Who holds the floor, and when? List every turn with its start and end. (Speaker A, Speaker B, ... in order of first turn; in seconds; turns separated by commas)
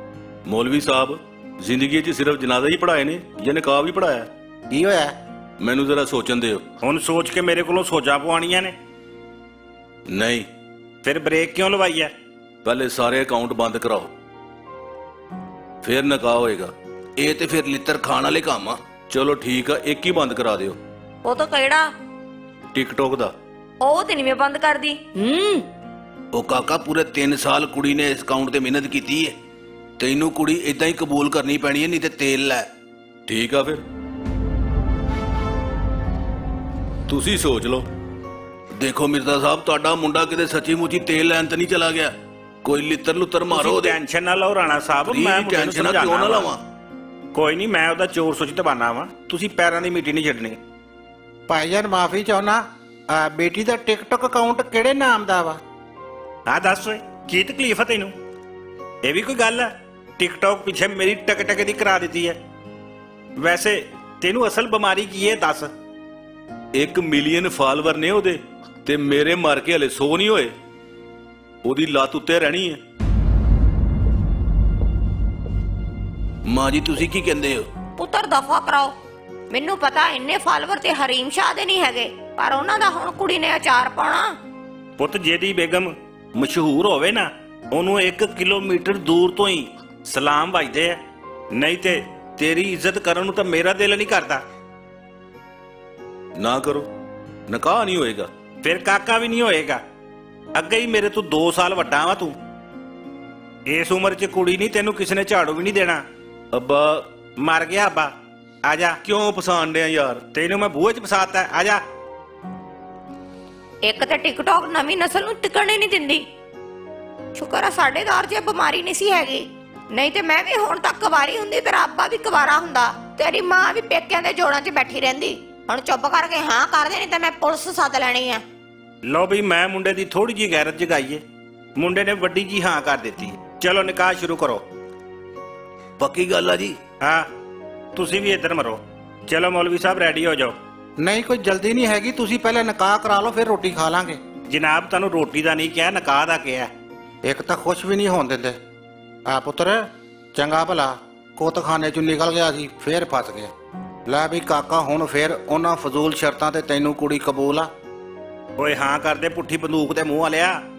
Speaker A: 0.5-4.3, Speaker B: 4.7-5.1, Speaker A: 5.6-6.6, Speaker C: 6.8-8.7, Speaker A: 10.1-10.5, Speaker C: 11.0-12.1, Speaker A: 12.6-14.1, Speaker A: 15.8-20.8, Speaker D: 21.2-21.9, Speaker A: 22.7-23.3, Speaker D: 23.8-25.7, Speaker A: 26.3-29.4, Speaker A: 30.0-32.7, Speaker A: 33.3-33.8, Speaker A: 37.1-37.9, Speaker A: 38.8-44.0, Speaker C: 43.5-46.5, Speaker A: 45.0-46.6, Speaker C: 47.3-50.6, Speaker B: 51.5-55.6, Speaker C: 56.5-58.1, Speaker C: 59.0-62.4, Speaker C: 63.4-65.7, Speaker A: 66.7-70.5, Speaker A: 71.6-72.8, Speaker A: 76.5-77.7, Speaker D: 78.0-79.0, Speaker D: 79.5-84.4, Speaker C: 85.0-91.0, Speaker C: 91.5-94.4, Speaker A: 96.4-96.9, Speaker A: 97.5-98.3, Speaker C: 98.6-99.8, Speaker C: 100.5-102.4, Speaker C: 103.7-106.0, Speaker A: 106.5-107.1, Speaker C: 107.4-108.1, Speaker C: 108.7-109.0, Speaker A: 109.0-110.2, Speaker C: 110.3-111.8, Speaker D: 113.8-116.2, Speaker D: 117.3-128.4, Speaker C: 129.0-131.2, Speaker C: 131.8-134.6, Speaker A: 136.0-136.8, Speaker C: 137.0-137.3, Speaker C: 137.9-140.6, Speaker B: 141.0-144.2, Speaker C: 144.5-146.7, Speaker B: 147.2-148.6, Speaker B: 149.3-153.5, Speaker B: 154.1-157.7, Speaker C: 158.6-160.6